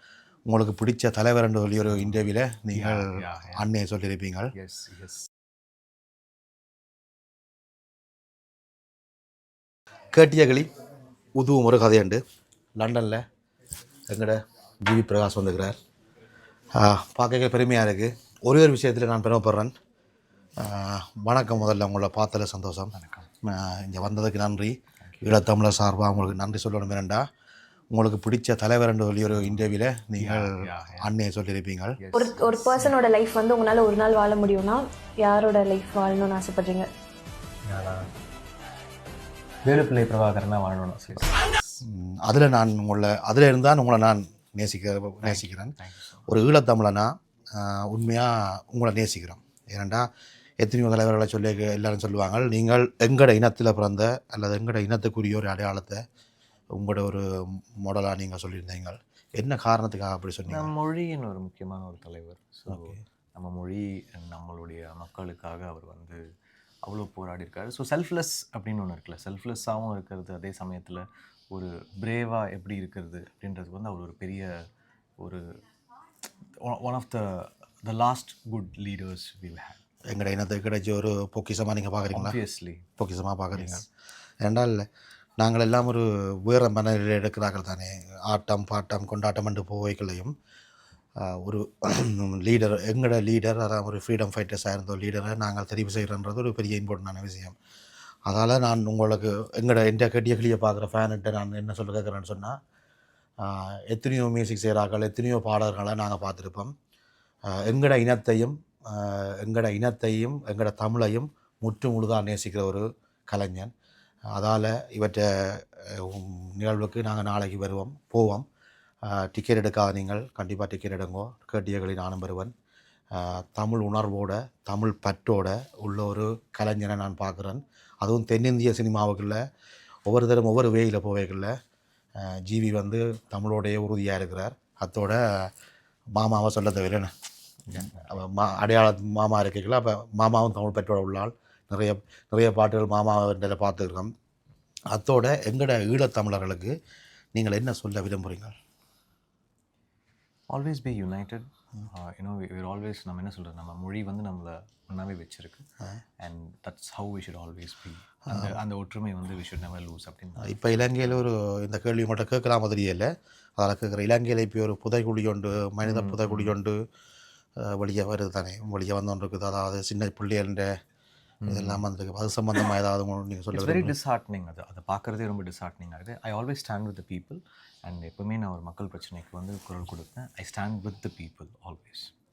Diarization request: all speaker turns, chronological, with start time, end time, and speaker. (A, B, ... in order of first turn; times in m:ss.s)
0:00.5-0:04.5 A
0:01.8-0:03.7 B
0:04.6-0:05.3 B
0:10.1-0:10.7 A
0:11.4-0:12.2 A
0:12.8-0:13.2 A
0:14.1-0:15.8 A
0:16.8-0:19.7 A
0:20.6-0:27.2 A
0:22.9-0:23.3 B
0:25.0-0:25.4 B
0:27.9-0:32.0 A
0:29.3-0:31.1 B
0:32.0-0:33.0 B
0:32.2-0:36.9 C
0:37.7-0:38.1 B
0:39.6-0:41.8 B
0:41.8-0:50.1 A
0:45.2-0:46.3 B
0:50.6-0:56.0 A
0:56.8-1:00.7 A
1:00.5-1:06.2 B
1:02.7-1:03.0 A
1:06.8-1:14.5 B
1:15.2-1:15.4 B
1:16.6-1:19.8 B
1:20.1-1:22.4 A
1:22.1-1:22.9 B
1:23.0-1:23.9 A
1:23.5-1:23.8 B
1:24.4-1:24.9 A
1:25.4-1:30.3 A
1:31.2-1:37.6 A
1:38.3-1:42.6 A
1:43.4-1:46.7 A
1:47.5-1:53.7 A
1:54.3-1:58.4 A
1:59.1-2:02.5 A
2:03.1-2:09.4 A
2:10.1-2:11.5 A
2:12.2-2:15.5 A
2:16.2-2:17.1 A
2:17.7-2:18.2 B
2:17.7-2:24.1 A
2:24.9-2:26.7 A
2:27.4-2:28.6 A
2:30.5-2:35.6 B
2:36.2-2:41.3 B
2:38.3-2:38.6 A
2:40.4-2:46.8 A
2:45.8-2:46.6 B
2:47.6-2:50.7 A
2:51.4-2:51.8 B
2:51.5-2:54.0 A
2:53.5-3:02.1 B